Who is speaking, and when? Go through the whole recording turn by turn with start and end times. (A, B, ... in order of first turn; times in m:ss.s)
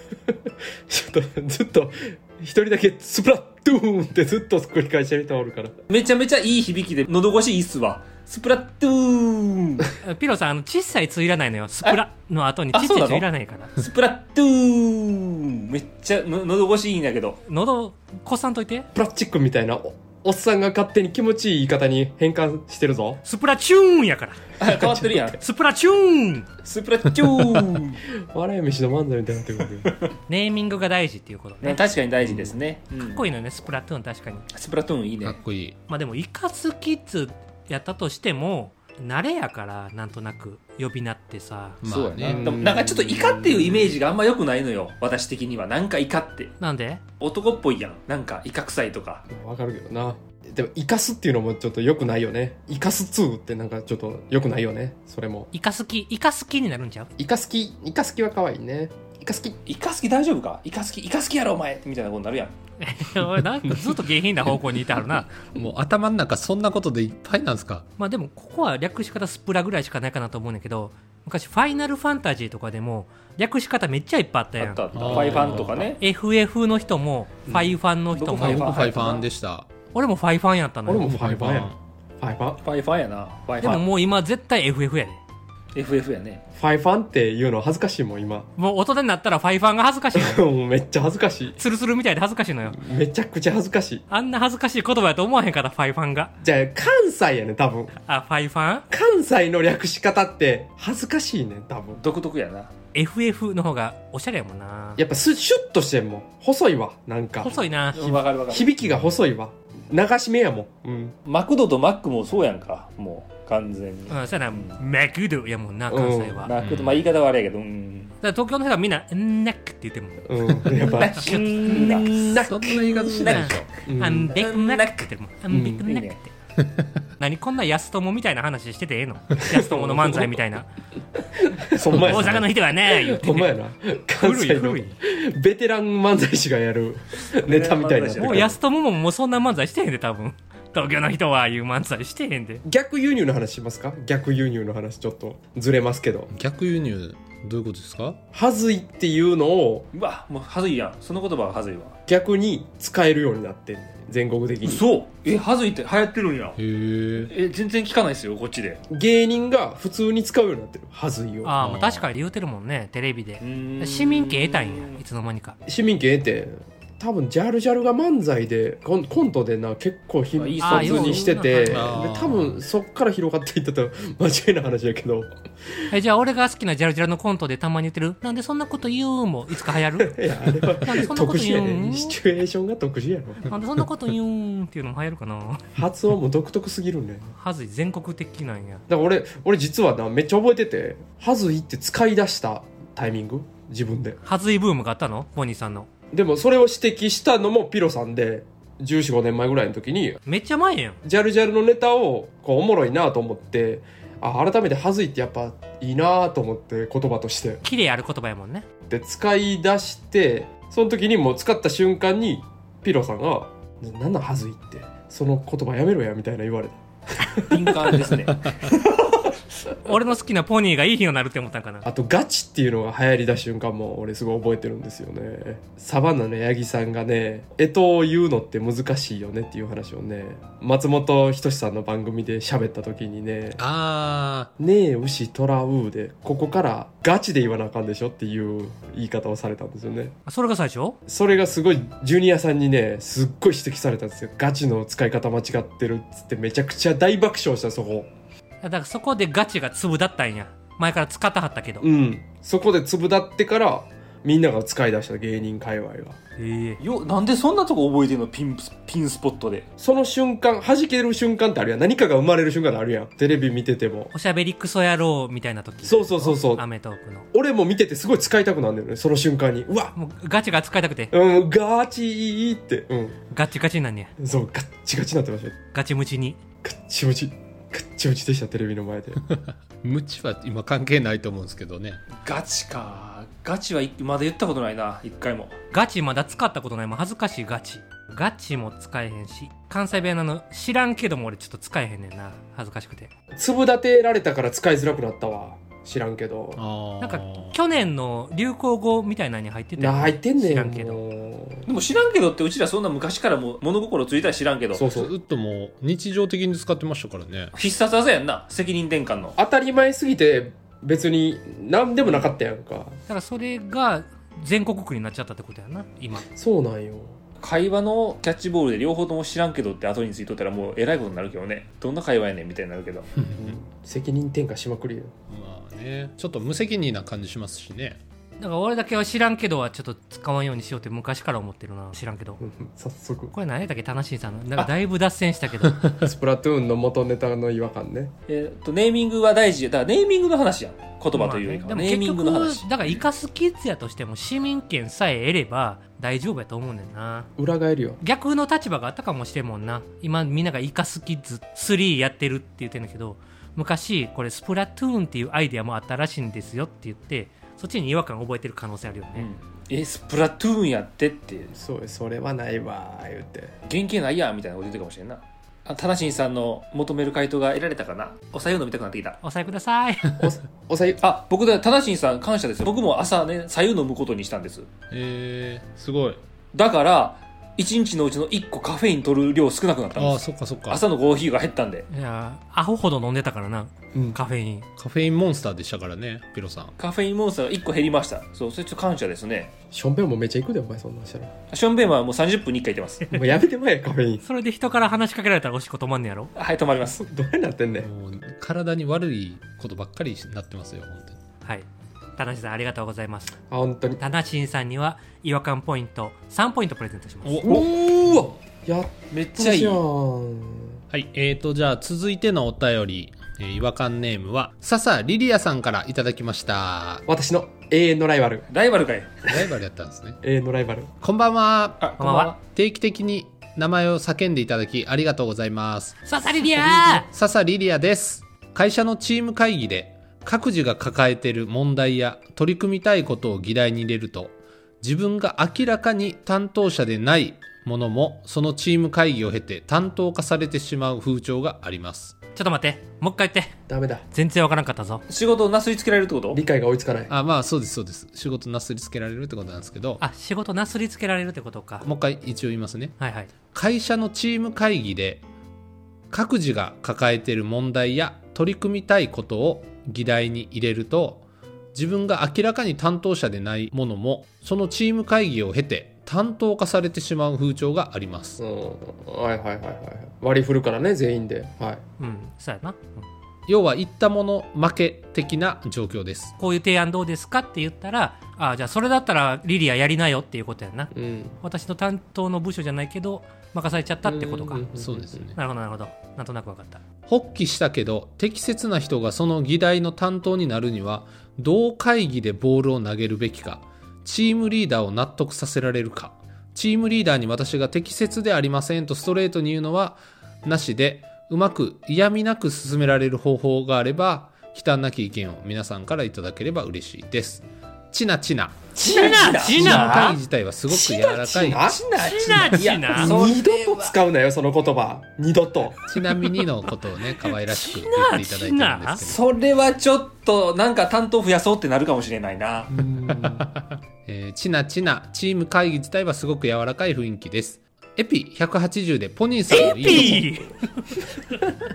0:00.3-0:05.8 A
0:05.9-0:09.9 B
0:10.0-0:13.7 C
0:12.7-0:17.4 B
0:17.4-0:18.9 C
0:18.9-0:23.2 A
0:23.2-0:24.5 C
0:24.6-0:25.4 B
0:24.6-0:25.2 A
0:25.4-0:26.5 C
0:26.6-0:28.0 B
0:28.2-0:29.9 A
0:30.3-0:31.8 C
0:31.6-0:33.2 B
0:33.0-0:34.4 C
0:34.5-0:35.4 B
0:35.2-0:35.8 D
0:35.9-0:41.8 C
0:41.8-0:42.6 D
0:41.8-0:46.5 B
0:42.2-0:43.9 A
0:46.6-0:47.0 C
0:47.2-0:49.2 B
0:49.3-0:55.5 A
0:55.5-0:57.1 C
0:57.2-0:59.6 A
0:59.6-1:02.5 B
1:02.8-1:05.4 C
1:05.5-1:07.9 D
1:08.0-1:19.1 C
1:14.6-1:16.0 B
1:14.9-1:15.9 D
1:17.5-1:17.8 A
1:18.1-1:19.2 B
1:18.4-1:19.7 D
1:19.9-1:21.1 C
1:20.9-1:22.6 A
1:21.0-1:21.8 D
1:22.6-1:23.8 B
1:23.6-1:25.2 C
1:25.7-1:26.4 B
1:26.5-1:28.5 A
1:28.6-1:30.4 C
1:30.1-1:31.6 A
1:31.6-1:32.8 C
1:32.7-1:34.0 A
1:34.1-1:36.3 C
1:36.4-1:37.9 A
1:38.0-1:38.8 C
1:38.9-1:42.0 A
1:42.0-1:42.7 B
1:42.9-1:45.0 C
1:45.0-1:47.5 A
1:47.4-1:48.2 C
1:47.9-1:48.7 B
1:48.5-1:51.2 A
1:51.2-1:54.8 B
1:54.1-1:56.5 C
1:55.9-1:56.5 A
1:56.4-1:58.2 B
1:56.6-1:57.1 D
1:58.2-2:02.0 C
2:00.2-2:03.3 A
2:00.7-2:03.6 B
2:02.3-2:03.7 D
2:03.3-2:06.3 C
2:03.8-2:04.3 A
2:04.3-2:05.1 B
2:05.5-2:05.8 A
2:05.8-2:06.2 B
2:07.2-2:10.7 C
2:09.5-2:10.4 A
2:11.2-2:18.6 A
2:11.8-2:12.4 D
2:11.9-2:13.5 C
2:14.2-2:14.9 C
2:17.4-2:18.6 B
2:18.2-2:22.6 C
2:22.6-2:26.3 A
2:26.3-2:28.2 D
2:28.3-2:29.9 A
2:29.9-2:31.9 B
2:32.1-2:34.8 A
2:34.6-2:36.6 B
2:36.6-2:37.3 D
2:37.2-2:38.8 B
2:38.9-2:41.6 A
2:41.4-2:45.6 C
2:41.6-2:42.1 D
2:43.4-2:45.0 B
2:45.6-2:55.3 A
2:50.3-2:51.3 B
2:50.6-2:51.9 C
2:51.7-2:52.6 D
2:55.9-3:00.2 C
3:00.0-3:03.5 A
3:00.8-3:02.2 C
3:03.4-3:05.7 C
3:05.7-3:07.3 A
3:07.4-3:08.8 C
3:08.9-3:14.2 A
3:14.2-3:15.9 C
3:16.1-3:20.2 A
3:20.2-3:21.0 C
3:21.0-3:27.6 A
3:27.6-3:28.6 C
3:28.9-3:38.2 A
3:37.4-3:38.8 B
3:39.8-3:41.9 C
3:41.8-3:53.6 A
3:53.6-3:54.5 D
3:54.6-4:00.1 A
4:00.2-4:01.0 C
4:01.1-4:08.1 A
4:08.6-4:11.8 C
4:11.8-4:16.2 A
4:16.4-4:16.8 C
4:16.8-4:19.7 B
4:19.8-4:24.1 A
4:24.1-4:27.3 C
4:25.8-4:26.6 A
4:27.3-4:29.9 A
4:29.9-4:31.1 C
4:31.1-4:33.2 A
4:33.3-4:34.1 C
4:34.2-4:35.6 A
4:35.7-4:36.4 C
4:36.6-4:39.2 A
4:39.2-4:42.0 D
4:42.1-4:45.6 B
4:45.7-4:53.1 C
4:53.3-4:56.6 A
4:56.6-4:57.6 D
4:57.0-5:01.0 C
4:59.8-5:01.7 A
5:01.6-5:04.9 B
5:04.7-5:05.1 A
5:04.9-5:07.5 D
5:07.5-5:09.4 B
5:09.4-5:13.0 A
5:12.0-5:12.3 B
5:13.1-5:16.2 C
5:16.2-5:17.2 A
5:17.4-5:23.1 B
5:23.2-5:23.6 D
5:23.4-5:25.1 A
5:25.3-5:28.0 D
5:28.4-5:32.4 C
5:32.4-5:33.3 A
5:33.3-5:35.9 C
5:36.0-5:38.1 A
5:38.3-5:42.7 B
5:41.1-5:47.3 C
5:47.4-5:48.0 A
5:48.0-5:59.3 C
5:59.1-6:01.5 B
6:01.5-6:03.5 A
6:03.6-6:09.2 B
6:09.2-6:10.1 C
6:10.2-6:11.0 A
6:11.0-6:14.7 B
6:14.9-6:16.2 D
6:16.5-6:21.9 B
6:20.0-6:20.8 D
6:21.9-6:24.7 C
6:23.9-6:24.2 A
6:24.8-6:26.7 D
6:26.8-6:29.5 B
6:29.7-6:31.3 A
6:31.5-6:33.2 B
6:33.1-6:34.2 A
6:34.2-6:36.3 C
6:36.4-6:37.0 B
6:36.9-6:37.9 A
6:37.8-6:41.2 D
6:41.4-6:43.4 C
6:43.5-6:44.0 A
6:44.0-6:47.4 C
6:47.2-6:47.6 D
6:47.4-6:50.8 A
6:49.1-6:49.8 B
6:50.9-6:57.0 D
6:57.1-6:58.4 A
6:58.5-6:59.3 B
6:59.3-7:00.2 D
7:00.2-7:00.9 A
7:01.0-7:01.9 D
7:01.8-7:02.4 B
7:02.0-7:02.3 C
7:02.4-7:22.2 D
7:06.0-7:07.1 C
7:22.4-7:23.5 C
7:23.7-7:24.0 A
7:24.1-7:25.0 C
7:25.1-7:26.4 B
7:26.3-7:27.1 A
7:27.1-7:30.0 D
7:30.0-7:31.8 C
7:31.8-7:33.0 D
7:33.0-7:33.3 C
7:33.5-7:35.2 D
7:36.1-7:48.4 D
7:48.4-7:51.8 A
7:52.0-7:53.0 C
7:53.5-7:56.3 D
7:56.4-8:04.7 C
8:00.9-8:01.4 A
8:04.0-8:05.3 A
8:04.8-8:05.4 D
8:05.3-8:06.8 C
8:07.1-8:28.7 D
8:28.8-8:30.1 B
8:28.9-8:30.2 C
8:28.9-8:30.2 A
8:29.5-8:31.6 D
8:30.7-8:35.8 A
8:30.8-8:34.0 B
8:32.0-8:33.2 C
8:35.8-8:39.2 D
8:37.3-8:39.0 C
8:39.0-8:42.7 B
8:42.7-8:43.5 A
8:43.1-8:50.3 D
8:49.5-8:50.6 C
8:49.6-8:50.4 A